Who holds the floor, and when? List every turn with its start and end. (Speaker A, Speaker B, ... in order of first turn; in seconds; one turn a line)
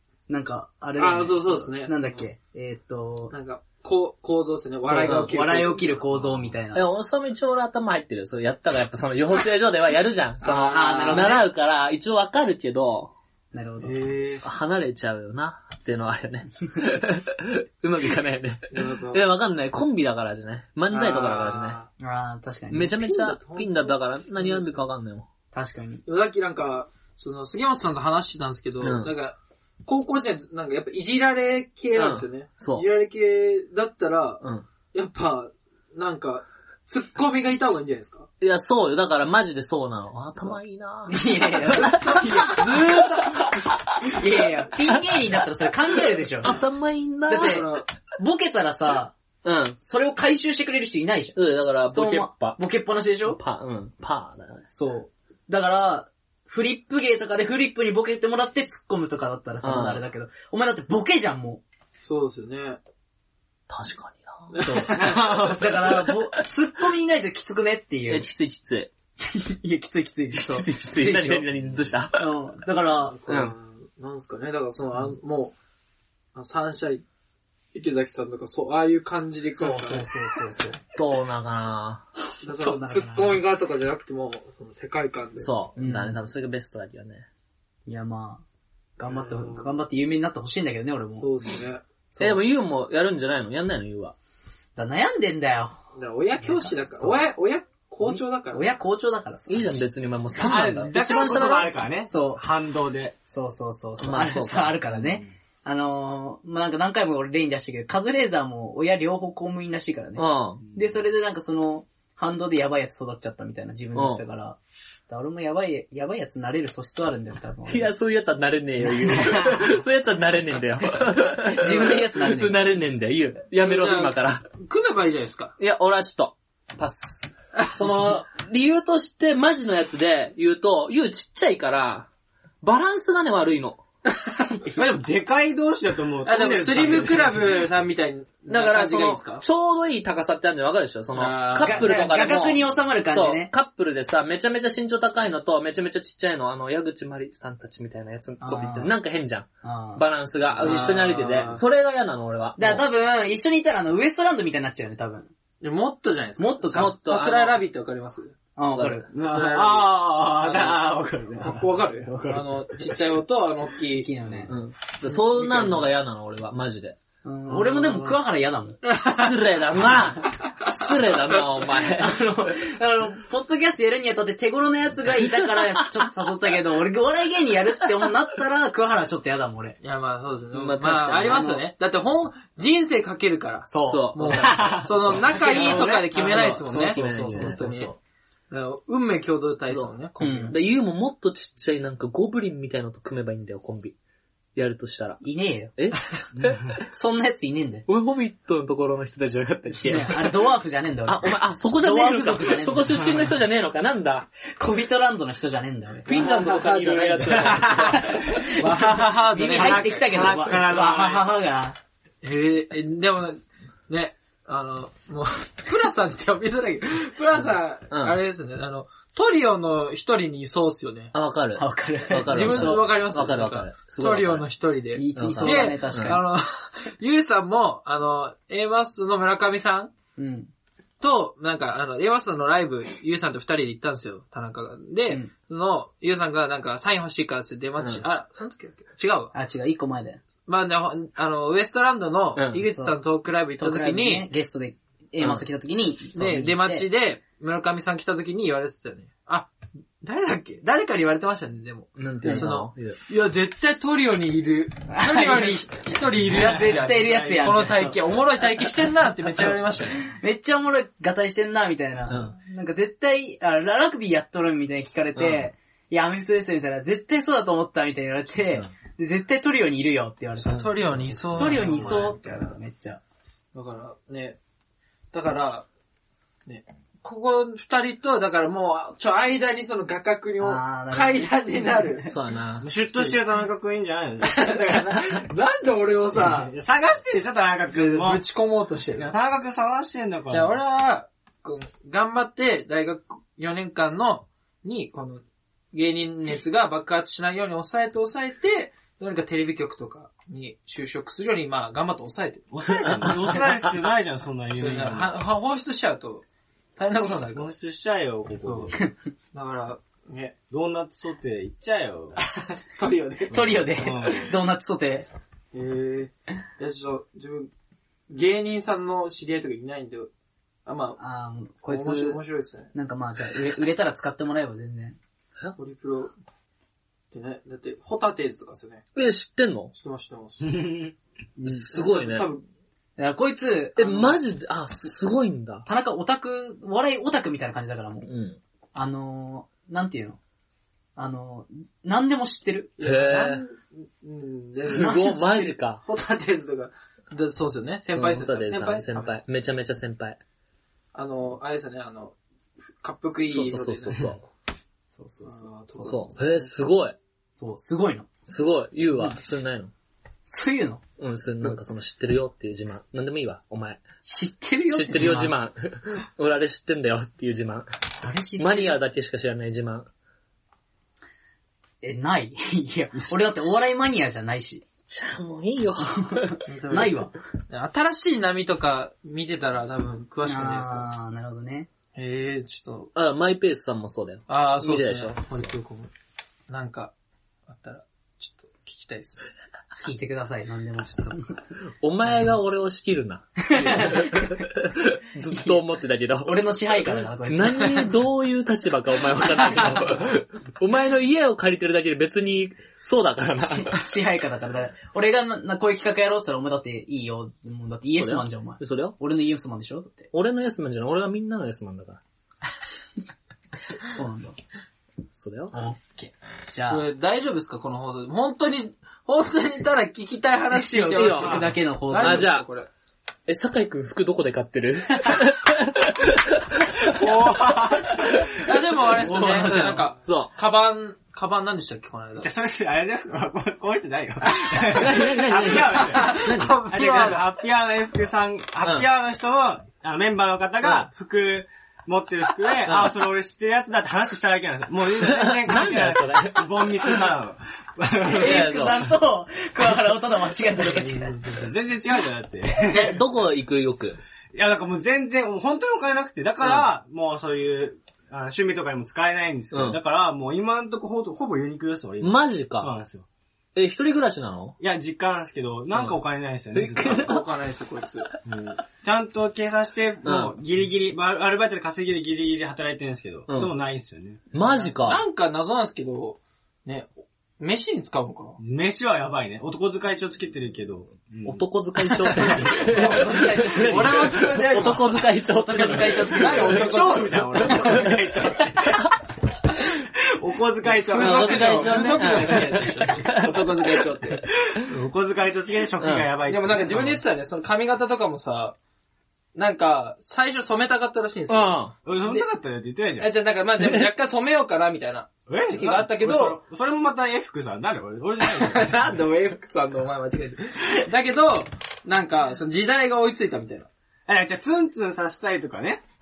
Speaker A: 0.3-3.3
Speaker B: 1.0-2.2
Speaker B: 3.3-6.0
Speaker A: 4.8-6.8
Speaker C: 5.0-5.3
Speaker C: 6.7-13.1
Speaker B: 10.4-11.4
Speaker A: 10.7-11.4
Speaker A: 13.5-14.0
Speaker B: 13.8-14.5
Speaker C: 14.4-21.8
Speaker B: 18.7-19.2
Speaker B: 20.9-21.9
Speaker A: 22.0-23.0
Speaker C: 22.7-25.3
Speaker B: 23.0-24.8
Speaker A: 25.5-26.0
Speaker B: 26.1-38.3
Speaker C: 28.8-29.1
Speaker C: 31.9-32.9
Speaker C: 38.4-43.8
Speaker A: 41.1-42.6
Speaker B: 41.8-43.5
Speaker A: 44.0-46.5
Speaker C: 46.4-47.6
Speaker A: 47.3-49.1
Speaker B: 47.3-47.9
Speaker C: 49.4-49.8
Speaker A: 49.8-51.4
Speaker C: 51.4-52.6
Speaker A: 51.9-53.4
Speaker C: 53.3-54.7
Speaker A: 54.7-61.6
Speaker C: 59.6-60.0
Speaker B: 62.0-62.8
Speaker C: 63.7-65.2
Speaker B: 64.5-65.0
Speaker A: 64.7-68.3
Speaker D: 64.9-65.8
Speaker C: 68.1-68.9
Speaker A: 69.2-71.5
Speaker C: 70.3-72.2
Speaker A: 72.2-73.2
Speaker B: 73.1-75.6
Speaker C: 73.3-73.5
Speaker B: 76.3-77.0
Speaker B: 77.7-80.1
Speaker A: 79.6-80.8
Speaker C: 81.0-82.1
Speaker B: 82.4-85.5
Speaker A: 82.5-83.4
Speaker C: 85.4-87.3
Speaker A: 85.8-86.2
Speaker A: 87.9-88.4
Speaker A: 89.0-91.3
Speaker B: 89.1-89.7
Speaker B: 91.2-91.8
Speaker A: 92.1-92.4
Speaker C: 92.2-94.2
Speaker A: 94.8-95.8
Speaker B: 96.0-98.7
Speaker A: 96.4-97.2
Speaker A: 98.0-99.8
Speaker C: 99.5-101.7
Speaker D: 100.4-103.2
Speaker A: 100.4-100.9
Speaker A: 102.1-102.4
Speaker A: 103.3-114.6
Speaker C: 104.0-104.9
Speaker C: 110.2-110.6
Speaker C: 114.0-114.2
Speaker A: 115.1-117.9
Speaker C: 117.7-124.5
Speaker A: 118.9-119.6
Speaker A: 121.4-122.6
Speaker B: 123.6-125.5
Speaker C: 125.6-132.1
Speaker C: 132.6-133.8
Speaker B: 134.2-134.5
Speaker D: 134.7-137.7
Speaker B: 136.2-139.4
Speaker C: 138.5-152.8
Speaker B: 141.2-142.1
Speaker A: 141.6-143.5
Speaker A: 148.4-148.9
Speaker A: 149.6-150.0
Speaker B: 150.6-151.6
Speaker A: 150.6-151.0
Speaker A: 152.6-155.3
Speaker B: 155.6-158.4
Speaker A: 156.4-156.9
Speaker C: 156.8-157.6
Speaker A: 158.6-159.1
Speaker C: 158.8-159.0
Speaker D: 159.1-162.9
Speaker B: 159.2-160.9
Speaker B: 161.4-164.1
Speaker A: 164.0-164.5
Speaker C: 164.5-167.0
Speaker B: 165.1-165.8
Speaker A: 167.2-168.8
Speaker B: 167.5-168.2
Speaker B: 168.8-169.4
Speaker C: 169.0-172.2
Speaker A: 171.9-179.8
Speaker B: 179.8-187.9
Speaker C: 180.5-181.5
Speaker A: 181.3-181.6
Speaker A: 183.7-188.0
Speaker C: 183.8-187.6
Speaker D: 184.3-186.7
Speaker B: 188.5-190.6
Speaker A: 190.2-190.6
Speaker C: 190.5-193.9
Speaker C: 194.6-195.2
Speaker A: 195.2-195.7
Speaker C: 195.8-196.6
Speaker D: 196.3-196.8
Speaker A: 196.8-197.9
Speaker C: 197.9-200.3
Speaker A: 199.8-203.2
Speaker C: 201.1-204.3
Speaker A: 204.6-211.8
Speaker C: 206.1-208.3
Speaker B: 206.1-207.6
Speaker D: 207.3-208.2
Speaker B: 208.5-210.0
Speaker D: 209.5-211.3
Speaker B: 212.2-221.1
Speaker C: 217.9-218.2
Speaker C: 221.1-224.4
Speaker A: 221.6-222.9
Speaker B: 222.3-229.9
Speaker A: 224.9-226.2
Speaker C: 225.2-226.2
Speaker A: 230.2-230.5
Speaker B: 231.0-239.3
Speaker A: 239.3-240.2
Speaker B: 240.5-244.3
Speaker C: 242.4-242.7
Speaker A: 243.6-246.9
Speaker C: 245.2-245.4
Speaker B: 246.2-249.5
Speaker B: 250.0-260.0
Speaker C: 252.0-253.0
Speaker A: 252.2-252.5
Speaker A: 254.9-255.7
Speaker A: 256.3-258.0
Speaker A: 260.0-270.8
Speaker C: 265.2-265.4
Speaker B: 270.4-272.2
Speaker C: 270.5-271.6
Speaker A: 271.3-273.0
Speaker B: 273.5-274.4
Speaker B: 275.1-275.7
Speaker B: 276.5-282.1
Speaker A: 280.4-281.3
Speaker C: 282.1-282.7
Speaker D: 282.6-284.6
Speaker B: 282.9-283.2
Speaker B: 284.2-286.5
Speaker D: 286.2-288.2
Speaker B: 287.7-289.1
Speaker D: 289.0-290.6
Speaker B: 290.3-303.4
Speaker D: 302.5-305.1
Speaker C: 302.8-303.7
Speaker B: 304.5-306.2
Speaker B: 306.8-307.5
Speaker D: 307.3-308.8
Speaker B: 308.4-310.4
Speaker D: 310.5-312.2
Speaker B: 312.4-313.6
Speaker A: 313.3-315.1
Speaker D: 313.3-314.3
Speaker B: 315.5-317.5
Speaker B: 318.1-320.1
Speaker B: 320.7-321.0
Speaker A: 321.0-322.2
Speaker B: 321.7-322.7
Speaker A: 322.7-325.0
Speaker B: 325.6-326.1
Speaker B: 327.1-328.8
Speaker C: 328.9-329.7
Speaker B: 329.7-330.5
Speaker D: 330.4-330.9
Speaker B: 331.4-332.4
Speaker C: 331.4-332.3
Speaker A: 333.0-334.2
Speaker C: 333.8-335.6
Speaker A: 335.6-338.1
Speaker C: 338.1-338.4
Speaker A: 338.8-340.2
Speaker A: 341.0-342.8
Speaker B: 342.8-349.2
Speaker C: 342.8-343.4
Speaker C: 344.6-345.8
Speaker C: 347.9-350.2
Speaker B: 350.9-352.1
Speaker B: 352.8-354.2
Speaker C: 353.2-354.2
Speaker A: 354.9-355.9
Speaker B: 355.2-356.5
Speaker C: 355.8-357.0
Speaker A: 357.4-358.1
Speaker C: 358.2-359.7
Speaker A: 360.3-360.8
Speaker C: 361.0-363.8
Speaker A: 364.0-365.4
Speaker C: 364.7-367.7
Speaker A: 368.0-368.8
Speaker C: 368.4-369.9
Speaker A: 371.8-374.6
Speaker C: 374.9-376.4
Speaker A: 375.8-377.1
Speaker B: 376.5-380.9
Speaker A: 380.3-381.7
Speaker B: 382.0-382.9
Speaker C: 382.9-385.5
Speaker B: 384.3-385.9
Speaker B: 386.5-386.9
Speaker B: 387.5-389.2
Speaker A: 389.8-391.4
Speaker B: 390.9-391.1
Speaker C: 391.8-403.8
Speaker A: 393.4-394.4
Speaker A: 395.3-395.6
Speaker A: 396.2-398.0
Speaker A: 399.4-400.0
Speaker A: 403.4-410.1
Speaker C: 408.0-409.0
Speaker C: 410.1-412.0
Speaker A: 413.8-414.4
Speaker C: 415.1-415.5
Speaker A: 415.5-416.9
Speaker B: 416.7-422.7
Speaker A: 420.5-422.3
Speaker C: 420.9-422.5
Speaker D: 421.2-421.5
Speaker C: 423.3-430.3
Speaker D: 426.8-428.2
Speaker B: 428.3-432.3
Speaker D: 432.2-448.4
Speaker B: 434.3-435.0
Speaker C: 434.7-437.1
Speaker B: 435.5-437.2
Speaker C: 442.6-442.9
Speaker C: 445.0-447.1
Speaker A: 448.1-451.2
Speaker C: 448.2-448.9
Speaker D: 450.9-453.0
Speaker C: 452.7-454.0
Speaker D: 454.3-463.1
Speaker C: 456.4-456.7
Speaker C: 459.5-459.8
Speaker C: 462.0-462.7
Speaker C: 463.6-464.6
Speaker D: 464.6-467.2
Speaker C: 466.6-467.2
Speaker B: 466.8-468.1
Speaker D: 468.2-474.2
Speaker C: 470.0-470.4
Speaker C: 473.3-473.6
Speaker C: 474.3-475.0
Speaker B: 474.4-478.4
Speaker D: 478.4-481.4
Speaker C: 481.2-486.7
Speaker A: 482.4-484.0
Speaker B: 483.0-485.0
Speaker A: 485.2-486.7
Speaker B: 486.1-487.8
Speaker D: 486.5-488.9
Speaker C: 487.4-488.0
Speaker D: 490.1-492.5
Speaker B: 490.7-494.3
Speaker C: 491.0-493.9
Speaker D: 494.5-497.0
Speaker C: 495.8-496.1
Speaker B: 496.3-498.6
Speaker B: 499.4-502.3
Speaker C: 501.3-501.7
Speaker D: 501.9-503.1
Speaker B: 503.0-506.4
Speaker C: 503.6-503.9
Speaker D: 505.3-508.9
Speaker B: 508.2-513.7
Speaker D: 514.1-515.8